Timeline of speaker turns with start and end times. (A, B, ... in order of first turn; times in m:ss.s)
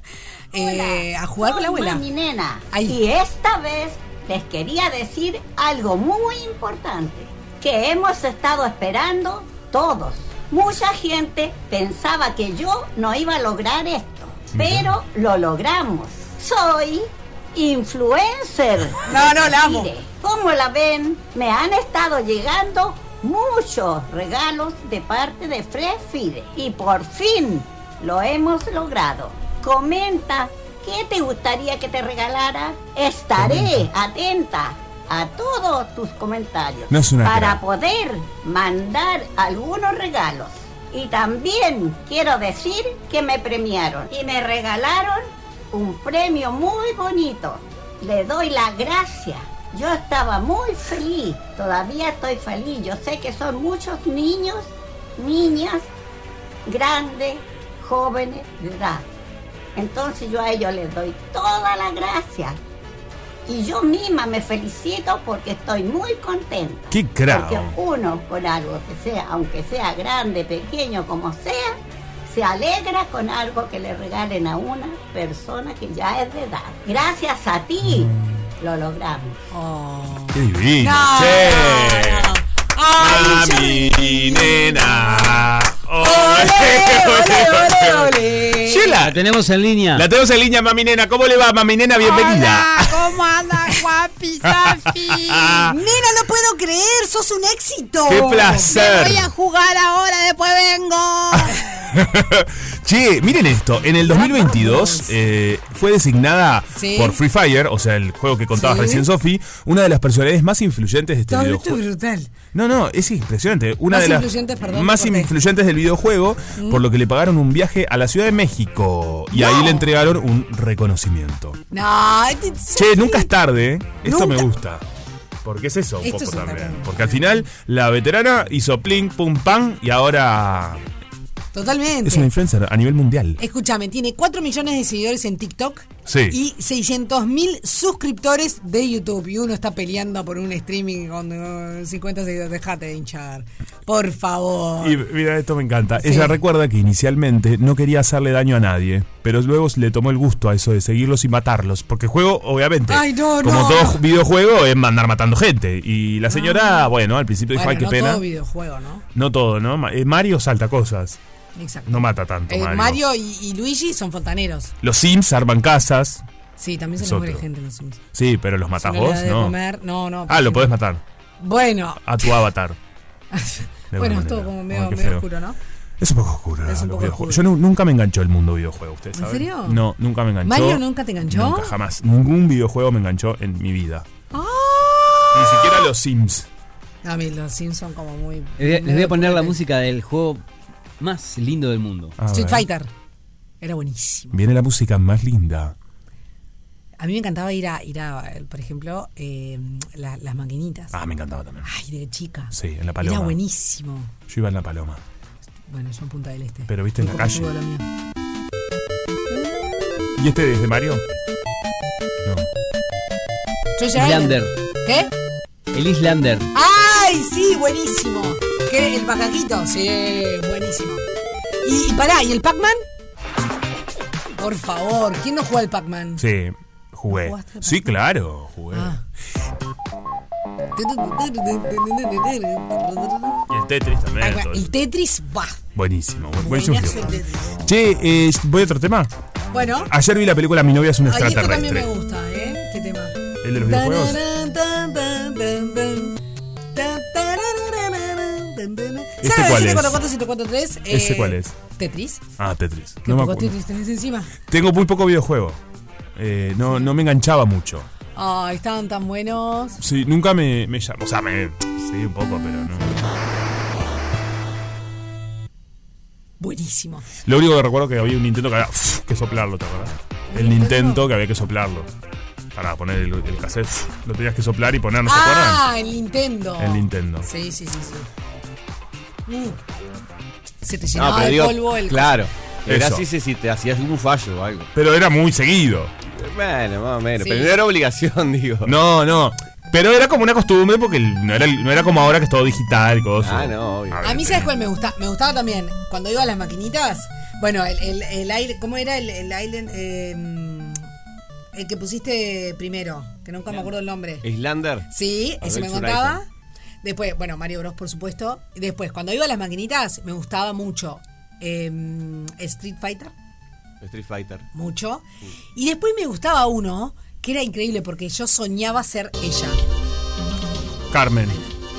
0:00.5-0:02.0 A
0:00.6-0:55.9 B
0:02.7-0:03.0 A
0:14.5-0:14.9 C
0:19.0-0:19.9 A
0:33.4-0:33.9 C
0:36.9-0:37.6 C
0:56.7-0:59.1 B
0:59.8-1:02.6 B
1:03.5-1:19.4 B
1:06.9-1:07.8 C
1:17.8-1:18.5 C
1:19.5-1:29.0 A
1:20.3-1:22.4 C
1:23.0-1:29.2 C
1:29.0-1:30.1 D
1:29.9-1:33.1 C
1:32.0-1:41.8 A
1:34.4-1:35.8 C
1:38.1-1:39.3 C
1:41.3-1:51.8 C
1:44.0-1:45.1 A
1:46.8-1:47.2 A
1:48.6-1:49.1 A
1:51.3-1:52.3 A
1:52.5-2:01.6 C
1:53.9-1:55.3 A
1:56.6-1:56.8 A
1:59.3-1:59.9 A
2:01.7-2:03.3 A
2:02.8-2:04.8 C
2:04.0-2:04.5 A
2:05.4-2:10.8 C
2:06.0-2:07.5 A
2:11.5-2:12.3 A
2:12.0-2:13.4 C
2:13.4-2:25.0 A
2:16.1-2:16.4 C
2:24.8-2:38.2 C
2:26.0-2:26.4 A
2:32.9-2:34.0 A
2:36.3-2:36.9 A
2:37.5-2:39.0 A
2:39.1-2:41.2 C
2:41.6-2:44.7 A
2:41.9-2:43.0 C
2:44.8-2:46.2 C
2:46.6-2:48.0 A
2:47.0-2:47.4 C
2:48.1-2:49.6 C
2:48.8-2:50.7 A
2:50.3-2:51.0 C
2:51.4-2:52.4 A
2:52.0-2:52.8 C
2:53.3-2:55.6 A
2:53.9-2:55.3 C
2:56.0-3:04.1 C
2:56.7-2:57.5 A
2:59.1-2:59.8 A
3:00.4-3:01.8 A
3:04.3-3:05.9 A
3:05.3-3:06.5 C
3:07.0-3:09.6 A
3:08.6-3:10.4 D
3:11.0-3:12.2 D
3:12.2-3:12.7 C
3:12.3-3:12.9 A
3:13.6-3:14.4 A
3:14.3-3:15.8 C
3:17.0-3:21.0 A
3:20.9-3:21.7 C
3:21.6-3:24.1 A
3:22.5-3:23.4 C
3:24.3-3:25.0 C
3:25.7-3:27.8 A
3:26.7-3:27.5 C
3:29.3-3:30.1 A
3:30.2-3:31.0 C
3:32.2-3:32.5 C
3:33.8-3:35.1 A
3:34.0-3:34.5 D
3:35.7-3:36.5 D
3:36.5-3:41.1 A
3:41.6-3:42.8 A
3:44.4-3:46.2 A
3:46.2-3:48.9 C
3:47.1-3:47.9 A
3:48.7-3:49.0 A
3:50.8-3:53.4 A
3:53.5-3:54.7 C
3:54.2-3:55.6 A
3:55.8-3:59.1 C
3:56.4-3:57.6 A
3:59.5-3:59.9 A
3:59.8-4:01.9 C
4:01.0-4:06.2 A
4:03.4-4:04.2 C
4:06.8-4:12.2 A
4:09.2-4:10.0 C
4:10.9-4:11.5 C
4:12.4-4:13.5 C
4:13.0-4:14.3 A
4:14.5-4:15.6 C
4:16.2-4:17.9 C
4:18.2-4:19.8 A
4:19.8-4:23.0 C
4:26.4-4:27.1 A
4:27.2-4:31.9 C
4:30.3-4:31.1 A
4:32.6-4:35.6 C
4:35.1-4:38.1 A
4:36.6-4:37.3 C
4:39.3-4:39.6 A
4:40.6-4:42.2 A
4:41.0-4:44.7 E
4:42.7-4:43.0 C
4:44.7-4:45.9 C
4:46.1-4:48.7 E
4:47.2-4:47.6 A
4:48.6-4:54.5 C
4:53.2-4:54.0 E
4:54.0-5:00.8 A
5:01.5-5:04.3 A
5:04.2-5:04.9 E
5:04.9-5:06.2 A
5:05.4-5:06.2 E
5:06.8-5:13.1 A
5:13.8-5:14.5 E
5:14.5-5:19.6 A
5:20.9-5:21.4 C